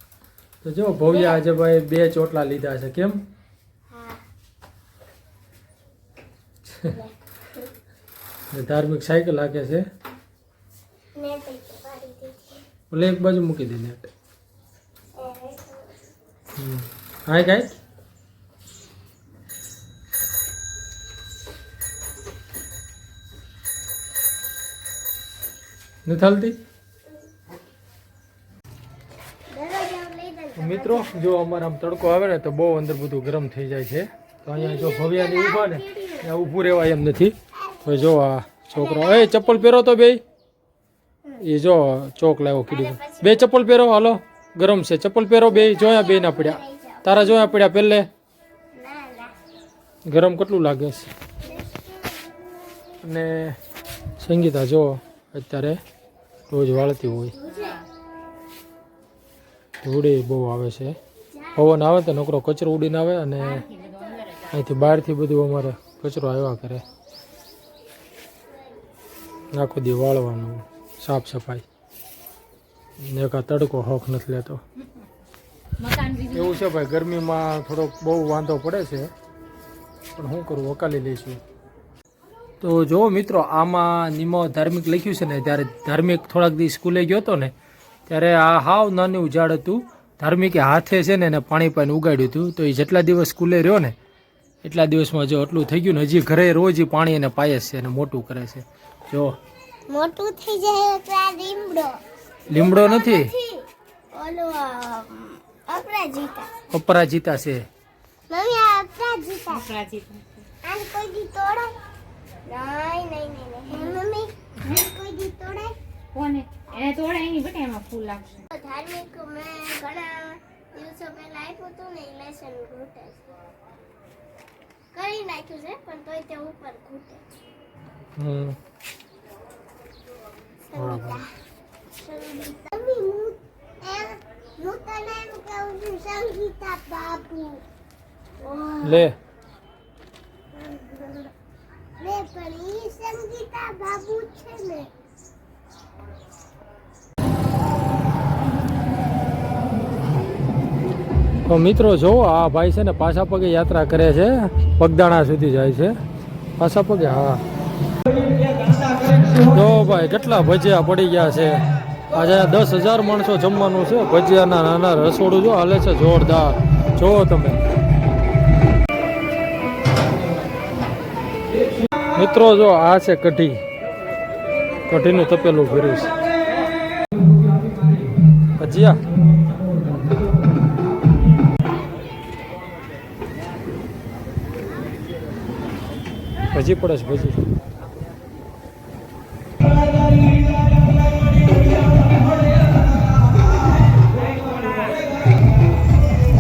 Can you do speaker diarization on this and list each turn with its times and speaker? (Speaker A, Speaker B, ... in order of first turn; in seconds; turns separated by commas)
Speaker A: 0.6-3.2, Speaker B: 1.1-1.4, Speaker B: 3.9-4.2, Speaker B: 6.9-7.6, Speaker A: 8.5-9.8, Speaker B: 11.2-12.6, Speaker A: 12.9-14.1, Speaker B: 15.2-15.9, Speaker A: 16.6-17.7, Speaker A: 26.1-26.6, Speaker B: 29.5-31.2, Speaker A: 30.6-40.2, Speaker B: 34.5-36.3, Speaker B: 37.7-38.1, Speaker B: 38.7-39.8, Speaker A: 41.4-48.1, Speaker B: 42.7-43.6, Speaker B: 45.5-47.6, Speaker B: 48.7-49.3, Speaker A: 50.1-51.1, Speaker B: 51.4-52.9, Speaker A: 53.0-53.6, Speaker A: 54.2-55.8, Speaker A: 56.5-57.4, Speaker B: 57.4-57.8, Speaker C: 57.5-57.9, Speaker A: 59.8-61.0, Speaker B: 61.3-61.8, Speaker A: 61.5-63.6, Speaker C: 63.4-64.7, Speaker A: 64.5-66.8, Speaker A: 69.5-71.6, Speaker A: 73.0-74.6, Speaker C: 75.8-76.7, Speaker A: 76.3-79.1, Speaker A: 80.2-81.4, Speaker A: 82.6-87.5, Speaker A: 88.1-94.0, Speaker A: 94.6-99.4, Speaker B: 99.9-106.5, Speaker A: 102.5-103.3, Speaker A: 106.7-107.7, Speaker B: 108.3-109.7, Speaker C: 109.5-110.5, Speaker B: 110.6-111.7, Speaker B: 112.5-115.8, Speaker C: 113.7-114.0, Speaker C: 116.1-118.5, Speaker B: 118.5-123.2, Speaker B: 124.9-127.2, Speaker A: 128.2-128.6, Speaker B: 130.7-131.3, Speaker A: 130.8-131.2, Speaker B: 131.9-137.6, Speaker B: 138.4-139.1, Speaker A: 138.8-139.2, Speaker B: 140.6-141.3, Speaker B: 142.0-144.9, Speaker A: 151.5-155.9, Speaker A: 156.6-157.4, Speaker A: 159.5-161.6, Speaker A: 162.1-167.6, Speaker A: 172.2-173.6, Speaker A: 174.9-176.1, Speaker A: 178.6-179.0, Speaker A: 186.5-187.4